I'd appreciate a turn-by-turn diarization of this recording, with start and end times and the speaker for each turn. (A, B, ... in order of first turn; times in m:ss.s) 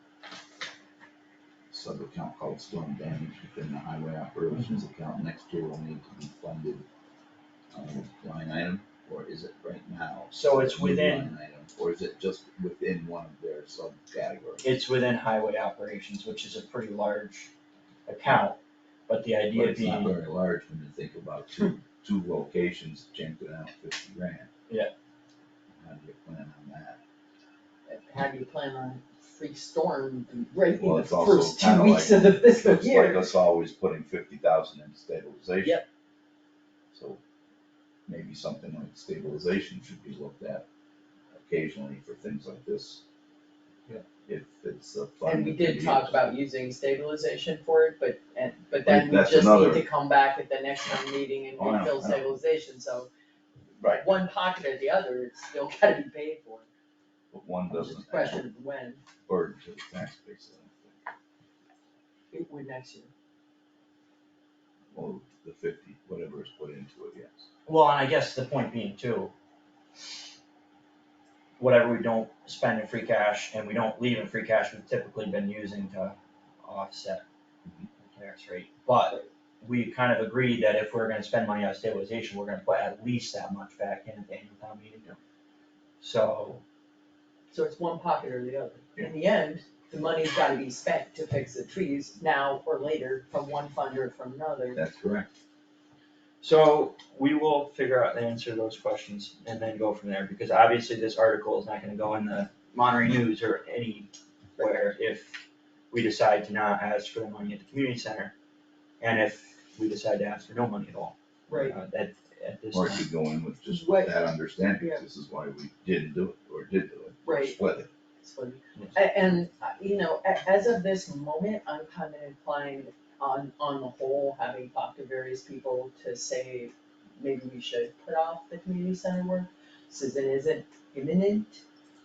0:01.7-0:06.8 A
0:07.7-0:14.8 A
0:10.3-0:11.3 B
0:14.6-0:17.5 B
0:18.1-0:20.2 B
0:19.5-0:24.5 A
0:25.8-0:27.0 A
0:27.9-0:33.3 C
0:30.8-0:35.8 A
0:36.9-0:37.2 A
0:38.0-0:40.6 A
0:41.3-0:43.0 A
0:44.2-0:46.2 A
0:45.2-0:53.1 C
0:48.8-0:49.8 A
0:51.6-0:52.3 A
0:53.8-0:54.0 A
0:53.9-0:56.7 C
0:57.3-0:58.4 A
0:57.7-0:59.0 C
0:59.3-1:01.0 A
1:02.3-1:03.1 C
1:04.9-1:07.5 A
1:07.6-1:09.3 B
1:11.6-1:17.2 B
1:18.0-1:25.2 B
1:26.0-1:26.6 B
1:27.5-1:34.8 C
1:34.7-1:35.3 A
1:36.4-1:48.3 B
1:49.0-1:53.0 B
1:51.5-1:51.8 C
1:52.7-1:57.9 A
1:53.7-1:54.2 C
1:57.2-1:57.6 C
1:58.2-2:11.6 C